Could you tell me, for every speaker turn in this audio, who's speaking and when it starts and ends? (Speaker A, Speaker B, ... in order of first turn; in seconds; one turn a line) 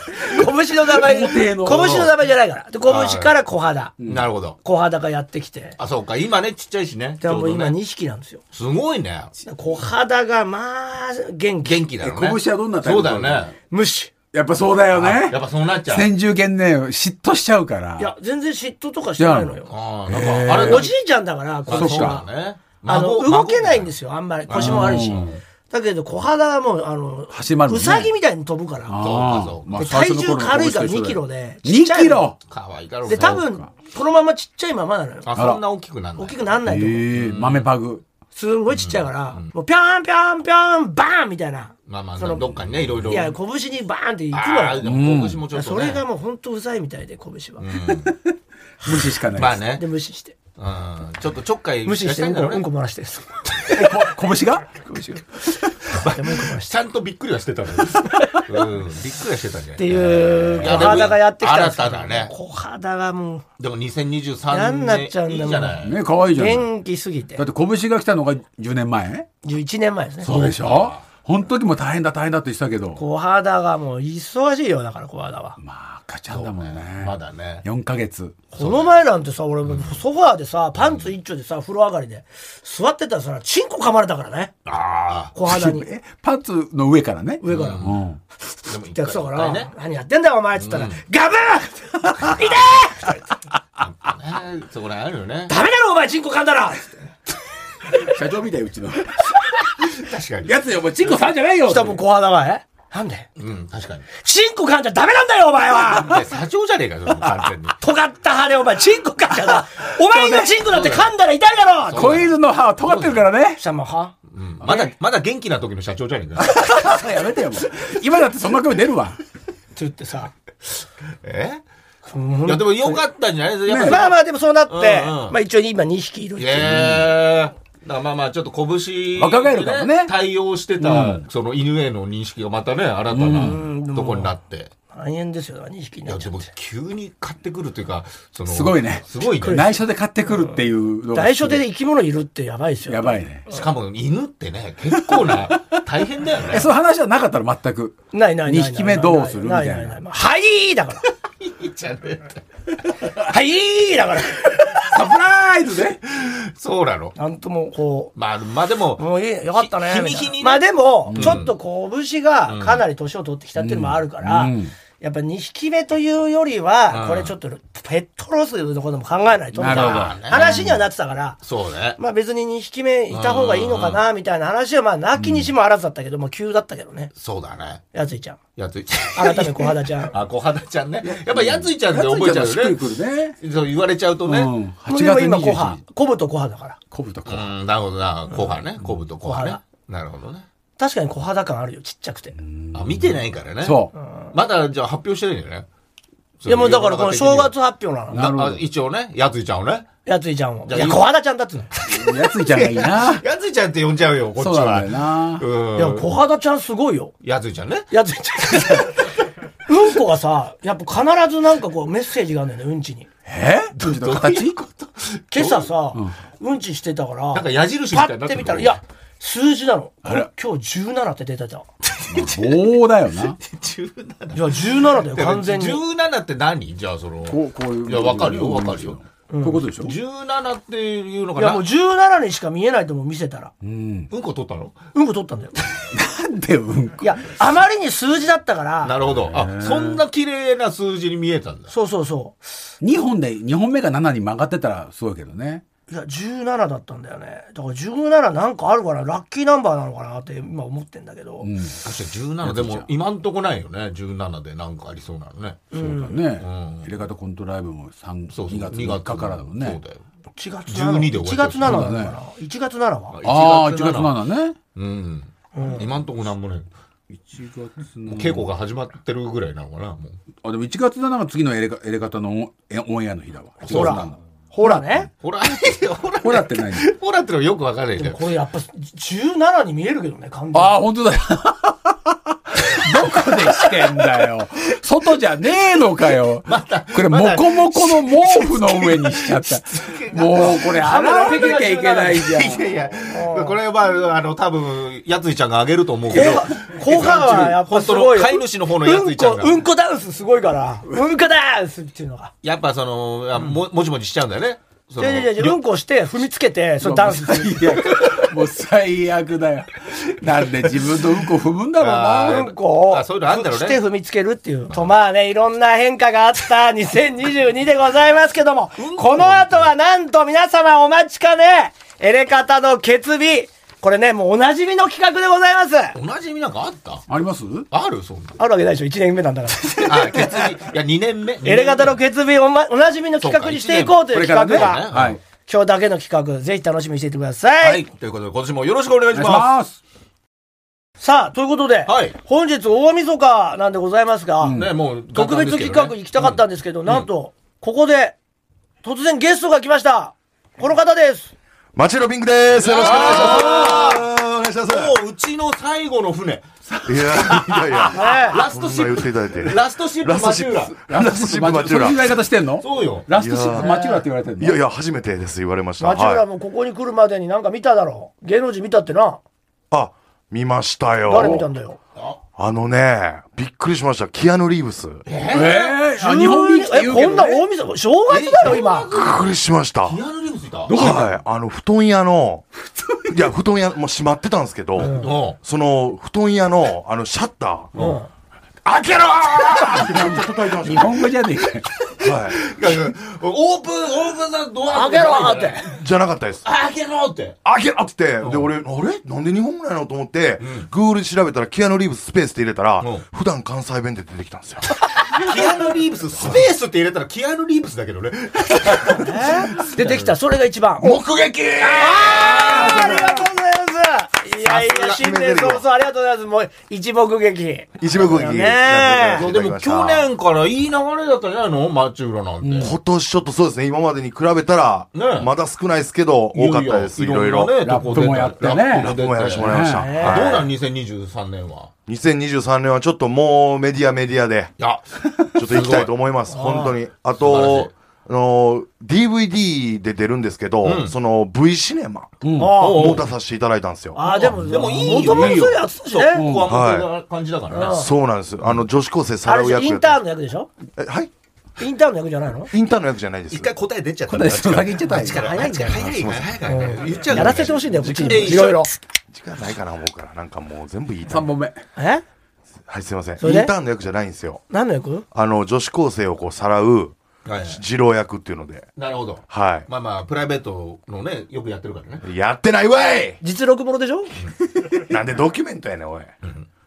Speaker A: 0.3-3.9
Speaker B: 1.0-2.1
Speaker C: 2.9-3.4
Speaker B: 4.0-4.3
Speaker C: 4.0-4.6
Speaker A: 4.6-5.8
Speaker C: 5.8-7.8
Speaker A: 7.2-8.4
Speaker C: 8.5-9.3
Speaker A: 9.4-11.8
Speaker C: 11.7-13.5
Speaker B: 12.0-13.5
Speaker A: 13.7-14.1
Speaker B: 14.3-18.1
Speaker C: 14.9-16.1
Speaker A: 18.0-19.7
Speaker B: 19.2-20.9
Speaker C: 19.7-20.9
Speaker A: 20.5-22.3
Speaker C: 21.7-23.9
Speaker B: 21.7-22.2
Speaker A: 22.9-29.0
Speaker C: 24.5-25.4
Speaker B: 24.5-25.3
Speaker B: 27.3-28.1
Speaker B: 28.9-32.4
Speaker C: 29.0-29.8
Speaker A: 29.8-32.3
Speaker C: 32.5-33.4
Speaker A: 33.1-35.3
Speaker B: 33.3-33.6
Speaker C: 35.2-36.5
Speaker B: 35.4-35.6
Speaker A: 36.2-37.1
Speaker B: 36.6-38.0
Speaker C: 37.1-37.7
Speaker A: 38.4-42.5
Speaker C: 38.7-39.5
Speaker C: 41.9-43.4
Speaker A: 43.1-44.8
Speaker C: 44.3-46.0
Speaker B: 44.8-45.5
Speaker A: 45.5-47.6
Speaker C: 47.6-48.1
Speaker B: 47.9-49.6
Speaker C: 48.9-49.9
Speaker A: 49.8-50.4
Speaker C: 50.6-52.6
Speaker A: 51.9-54.0
Speaker B: 53.7-54.7
Speaker A: 54.8-56.7
Speaker C: 55.9-62.3
Speaker A: 59.8-63.4
Speaker B: 60.6-61.0
Speaker C: 63.6-66.0
Speaker A: 64.5-67.4
Speaker B: 65.8-66.7
Speaker B: 67.4-69.3
Speaker A: 69.4-70.5
Speaker B: 70.2-73.0
Speaker C: 70.3-71.0
Speaker A: 73.0-75.6
Speaker B: 75.6-78.4
Speaker C: 76.3-77.6
Speaker C: 78.5-78.9
Speaker A: 78.5-84.5
Speaker C: 79.7-80.0
Speaker C: 80.8-81.1
Speaker C: 84.7-85.3
Speaker A: 85.3-85.9
Speaker B: 85.5-88.2
Speaker A: 87.4-87.8
Speaker C: 87.5-88.0
Speaker C: 88.7-89.7
Speaker A: 88.9-93.2
Speaker C: 90.6-91.0
Speaker C: 93.9-95.5
Speaker A: 95.5-97.1
Speaker B: 97.9-99.9
Speaker C: 100.0-100.6
Speaker B: 100.5-102.0
Speaker A: 101.7-103.3
Speaker C: 103.4-104.1
Speaker A: 104.2-106.3
Speaker C: 106.0-107.8
Speaker A: 107.8-112.2
Speaker B: 110.1-110.5
Speaker C: 110.7-111.1
Speaker C: 111.9-112.3
Speaker B: 111.9-113.6
Speaker C: 112.8-113.2
Speaker A: 113.6-114.1
Speaker C: 114.3-116.6
Speaker B: 114.6-114.9
Speaker B: 116.4-119.2
Speaker A: 119.8-120.3
Speaker C: 121.2-121.6
Speaker A: 122.1-123.0
Speaker C: 122.5-124.2
Speaker B: 123.7-124.0
Speaker A: 123.8-126.9
Speaker C: 124.7-125.4
Speaker C: 126.4-134.7
Speaker B: 126.6-127.0
Speaker B: 129.2-130.1
Speaker B: 130.8-131.2
Speaker B: 133.1-133.6
Speaker A: 133.3-134.3
Speaker A: 134.9-136.4
Speaker C: 136.1-139.7
Speaker B: 138.5-141.7
Speaker A: 139.4-139.7
Speaker A: 141.1-143.2
Speaker B: 142.9-143.5
Speaker C: 143.5-146.7
Speaker B: 144.9-145.8
Speaker B: 146.5-150.0
Speaker A: 148.1-151.1
Speaker C: 151.4-152.4
Speaker A: 153.1-154.7
Speaker B: 154.6-156.0
Speaker C: 156.1-157.2
Speaker A: 157.2-158.1
Speaker C: 158.2-161.5
Speaker A: 159.0-171.4
Speaker B: 161.1-161.4
Speaker C: 162.5-162.8
Speaker B: 163.6-164.7
Speaker C: 166.9-167.3
Speaker B: 169.6-170.8
Speaker C: 169.7-170.7
Speaker C: 171.4-172.0
Speaker A: 172.0-177.1
Speaker C: 173.1-174.0
Speaker B: 175.2-175.5
Speaker C: 177.2-177.8
Speaker A: 177.9-178.4
Speaker C: 178.6-182.8
Speaker A: 179.2-180.2
Speaker B: 181.1-183.4
Speaker C: 183.4-184.5
Speaker B: 184.3-185.8
Speaker A: 184.9-186.8
Speaker B: 186.9-187.5
Speaker C: 187.3-190.5
Speaker A: 189.2-189.6
Speaker A: 190.8-192.4
Speaker B: 192.4-193.9
Speaker C: 192.7-195.7
Speaker C: 196.4-197.5
Speaker A: 196.5-198.2
Speaker B: 198.1-198.6
Speaker C: 198.1-199.9
Speaker A: 200.1-201.8
Speaker C: 200.7-201.1
Speaker B: 201.9-203.2
Speaker C: 202.7-206.1
Speaker B: 204.4-205.4
Speaker A: 205.8-207.1
Speaker C: 207.2-207.9
Speaker A: 207.9-209.1
Speaker A: 209.7-213.1
Speaker B: 213.3-214.6
Speaker C: 213.8-215.7
Speaker A: 215.3-221.7
Speaker C: 217.3-218.8
Speaker C: 221.8-222.7
Speaker B: 222.1-223.4
Speaker C: 223.4-229.0
Speaker A: 224.3-225.8
Speaker B: 227.3-229.9
Speaker A: 229.3-229.6
Speaker C: 229.8-231.6
Speaker A: 231.4-233.5
Speaker B: 233.6-234.1
Speaker C: 234.1-234.8
Speaker A: 234.9-235.7
Speaker B: 235.9-237.2
Speaker A: 237.0-238.9
Speaker C: 238.8-241.7
Speaker B: 239.3-240.0
Speaker A: 241.7-242.4
Speaker B: 242.8-245.6
Speaker A: 245.9-251.5
Speaker B: 251.4-251.8
Speaker C: 251.8-255.7
Speaker B: 252.4-252.9
Speaker A: 255.7-256.2
Speaker B: 255.8-259.8
Speaker C: 256.4-256.9
Speaker C: 258.3-260.0
Speaker A: 260.4-263.2
Speaker C: 260.7-262.0
Speaker B: 261.6-262.2
Speaker C: 263.1-264.1
Speaker B: 263.2-264.6
Speaker C: 264.8-266.7
Speaker A: 265.6-265.9
Speaker B: 267.1-268.5
Speaker C: 268.1-270.2
Speaker B: 270.4-275.0
Speaker C: 273.6-274.1
Speaker A: 273.7-275.1
Speaker C: 275.2-278.2
Speaker B: 276.2-276.9
Speaker A: 278.0-280.8
Speaker B: 280.5-292.6
Speaker C: 286.5-290.7
Speaker A: 290.4-292.4
Speaker C: 292.2-299.6
Speaker A: 293.1-293.6
Speaker A: 296.1-302.3
Speaker B: 296.1-297.4
Speaker C: 302.4-305.6
Speaker A: 305.0-307.7
Speaker B: 306.8-312.5
Speaker C: 311.8-313.8
Speaker A: 312.2-326.0
Speaker C: 318.8-319.7
Speaker C: 325.9-327.1
Speaker B: 327.1-327.7
Speaker C: 327.7-328.4
Speaker A: 328.4-330.4
Speaker C: 329.8-332.0
Speaker A: 331.4-337.8
Speaker C: 333.2-335.2
Speaker B: 334.1-335.2
Speaker C: 337.6-339.5
Speaker B: 339.1-339.8
Speaker A: 341.0-344.6
Speaker C: 341.9-342.1
Speaker B: 344.4-344.7
Speaker C: 344.5-347.1
Speaker A: 345.1-348.2
Speaker A: 348.8-351.3
Speaker D: 351.8-355.0
Speaker C: 352.6-354.1
Speaker A: 352.9-353.7
Speaker B: 353.2-353.5
Speaker C: 354.7-356.5
Speaker B: 356.7-357.9
Speaker D: 356.9-362.1
Speaker C: 357.8-360.8
Speaker A: 357.9-358.4
Speaker B: 360.8-364.6
Speaker C: 362.6-363.1
Speaker D: 363.1-363.8
Speaker A: 363.6-364.0
Speaker D: 364.4-366.2
Speaker A: 365.8-369.2
Speaker D: 369.7-371.5
Speaker A: 371.1-371.8
Speaker B: 371.2-371.4
Speaker D: 372.4-375.0
Speaker C: 375.1-375.7
Speaker B: 375.3-377.4
Speaker A: 375.5-378.9
Speaker C: 378.1-379.3
Speaker D: 378.7-380.0
Speaker C: 379.8-380.8
Speaker B: 380.7-381.2
Speaker D: 380.7-382.5
Speaker B: 382.8-383.3
Speaker D: 383.1-387.7
Speaker C: 384.8-385.4
Speaker A: 387.8-388.1
Speaker D: 388.6-391.1
Speaker B: 389.6-392.2
Speaker D: 392.0-392.4
Speaker C: 392.4-395.7
Speaker A: 394.7-395.8
Speaker D: 395.7-396.4
Speaker C: 396.4-397.4
Speaker D: 397.4-404.8
Speaker C: 398.2-398.5
Speaker C: 400.4-400.7
Speaker C: 405.1-410.1
Speaker A: 408.7-411.0
Speaker D: 410.8-413.2
Speaker C: 411.6-413.1
Speaker A: 411.6-419.3
Speaker D: 414.4-415.6
Speaker C: 414.5-414.8
Speaker D: 417.8-420.1
Speaker C: 419.1-422.7
Speaker B: 422.4-422.7
Speaker D: 422.6-427.7
Speaker C: 424.9-425.3
Speaker C: 426.3-431.7
Speaker B: 427.6-429.9
Speaker D: 428.5-430.5
Speaker A: 429.7-430.4
Speaker D: 431.9-434.5
Speaker C: 434.6-435.9
Speaker D: 435.4-444.0
Speaker A: 436.3-436.8
Speaker C: 437.2-437.7
Speaker C: 440.6-440.9
Speaker B: 442.2-442.7
Speaker A: 442.4-443.0
Speaker C: 442.6-443.1
Speaker A: 443.9-446.3
Speaker C: 444.0-447.8
Speaker B: 444.6-445.6
Speaker B: 446.1-446.5
Speaker D: 446.4-446.9
Speaker A: 447.5-447.9
Speaker D: 447.6-450.0
Speaker A: 449.2-450.5
Speaker D: 450.8-451.1
Speaker A: 451.6-452.5
Speaker D: 452.5-453.5
Speaker C: 453.3-458.7
Speaker B: 454.1-455.4
Speaker A: 454.9-455.9
Speaker D: 455.8-458.4
Speaker A: 456.5-458.7
Speaker B: 457.9-458.2
Speaker D: 459.1-461.3
Speaker B: 461.1-461.6
Speaker A: 461.8-462.0
Speaker D: 462.7-464.4
Speaker A: 463.2-463.5
Speaker A: 464.5-465.1
Speaker D: 465.1-466.9
Speaker C: 467.2-467.6
Speaker D: 467.5-468.7
Speaker C: 468.8-472.1
Speaker D: 469.3-469.7
Speaker D: 472.0-473.2
Speaker A: 473.2-474.1
Speaker D: 474.7-476.2